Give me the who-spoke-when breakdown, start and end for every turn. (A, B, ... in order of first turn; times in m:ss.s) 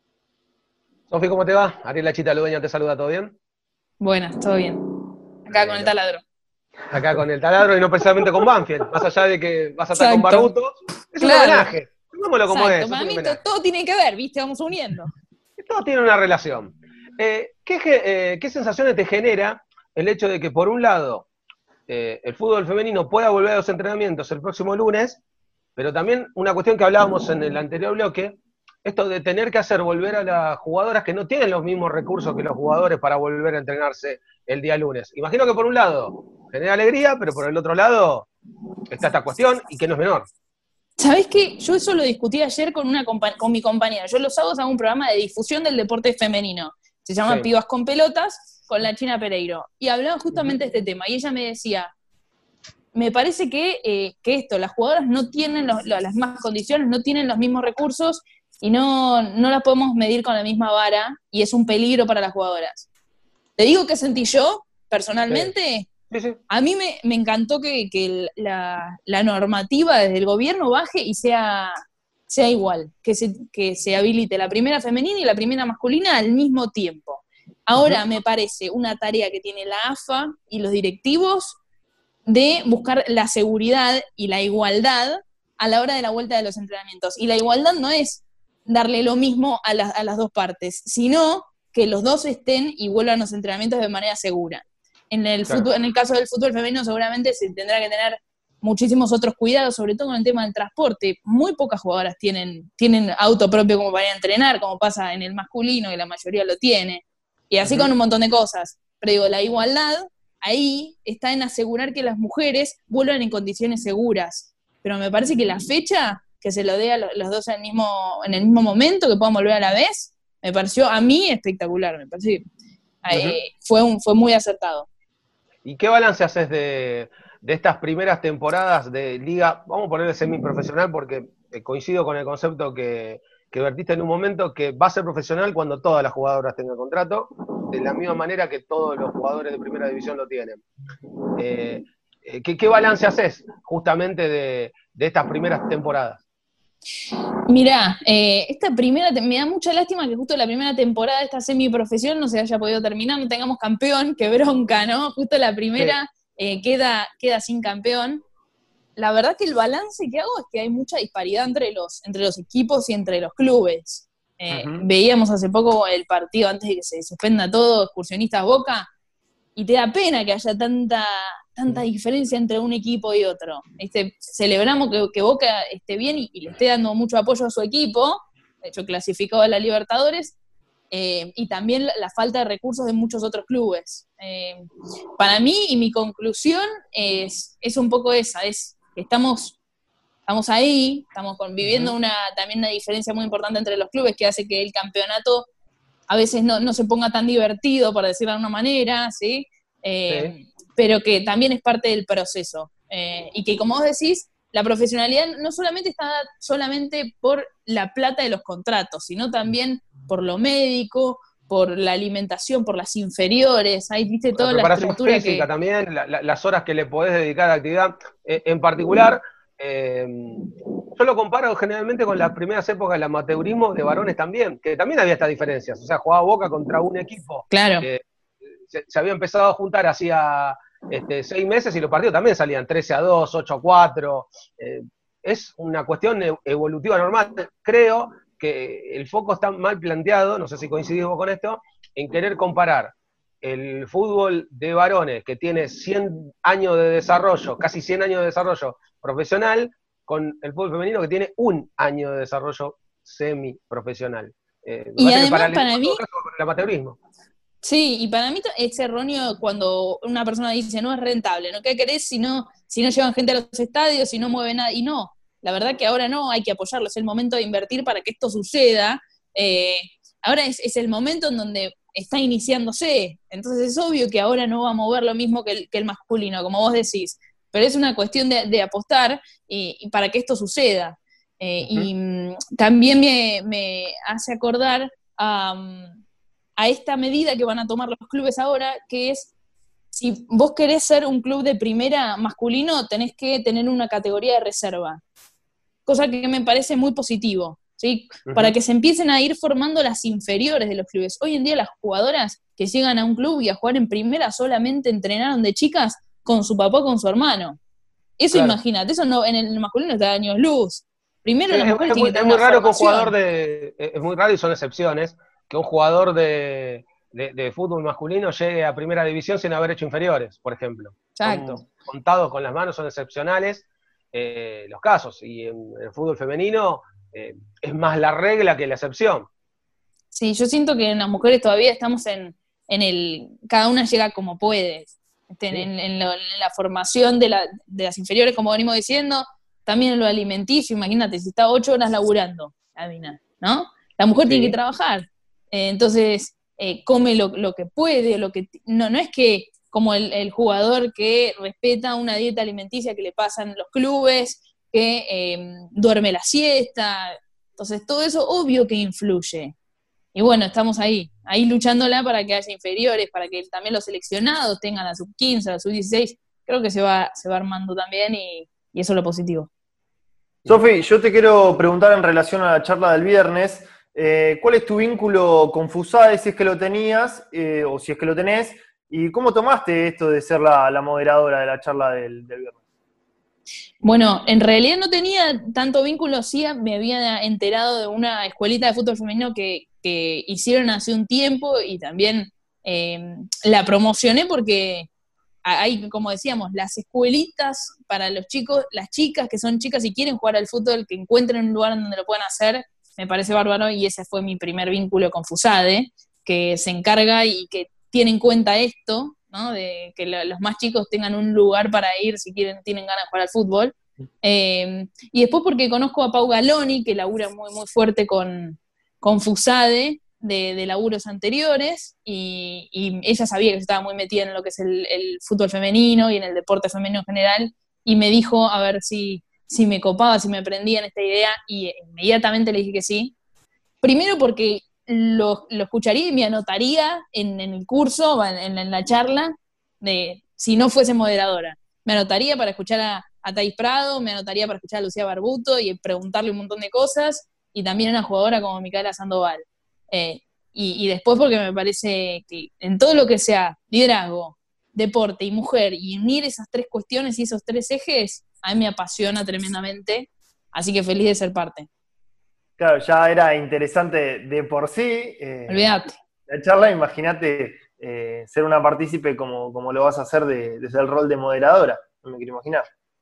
0:01.1-0:03.4 A
0:04.0-0:06.2 B
0:05.5-0:05.9 A
0:06.9-0:13.4 A
0:10.0-0:10.5 B
0:11.2-0:11.7 B
0:12.5-0:15.1 B
0:15.6-0:21.3 A
0:21.9-0:25.2 A
0:25.8-0:38.3 A
0:38.9-0:40.3 A
0:41.0-0:51.9 B
0:52.9-1:02.9 B
1:03.6-1:05.9 B
1:06.1-1:06.4 A
1:06.5-1:21.6 B
1:22.3-2:02.5 B
1:47.6-1:47.9 A
2:03.0-2:04.9 B
2:03.1-2:03.4 A
2:05.6-2:20.6 A
2:21.4-2:26.2 A
2:27.5-2:38.2 B
2:39.0-2:48.9 B
2:44.5-2:44.8 A
2:49.6-3:00.4 B
3:00.9-3:04.7 B
3:05.2-3:09.6 B
3:10.3-3:15.5 B
3:11.6-3:11.9 A
3:16.1-3:35.5 B
3:34.4-3:48.0 A
3:47.5-3:47.8 B
3:48.7-4:17.0 A
4:15.0-4:16.0 B
4:17.6-4:46.0 B
4:46.6-4:49.3 B
4:49.9-4:55.0 B
4:55.9-5:07.6 B
4:58.3-4:58.5 A
5:08.2-5:13.1 B
5:08.3-5:08.6 A
5:11.5-5:29.3 A
5:21.2-5:21.6 B
5:30.1-5:59.6 B
5:44.2-5:44.6 A
6:00.1-6:09.5 B
6:10.5-6:22.6 C
6:23.8-6:34.9 B
6:35.4-7:13.1 B
7:13.8-7:41.7 B
7:42.6-7:45.7 C
7:45.5-7:46.0 B
7:46.3-7:52.7 C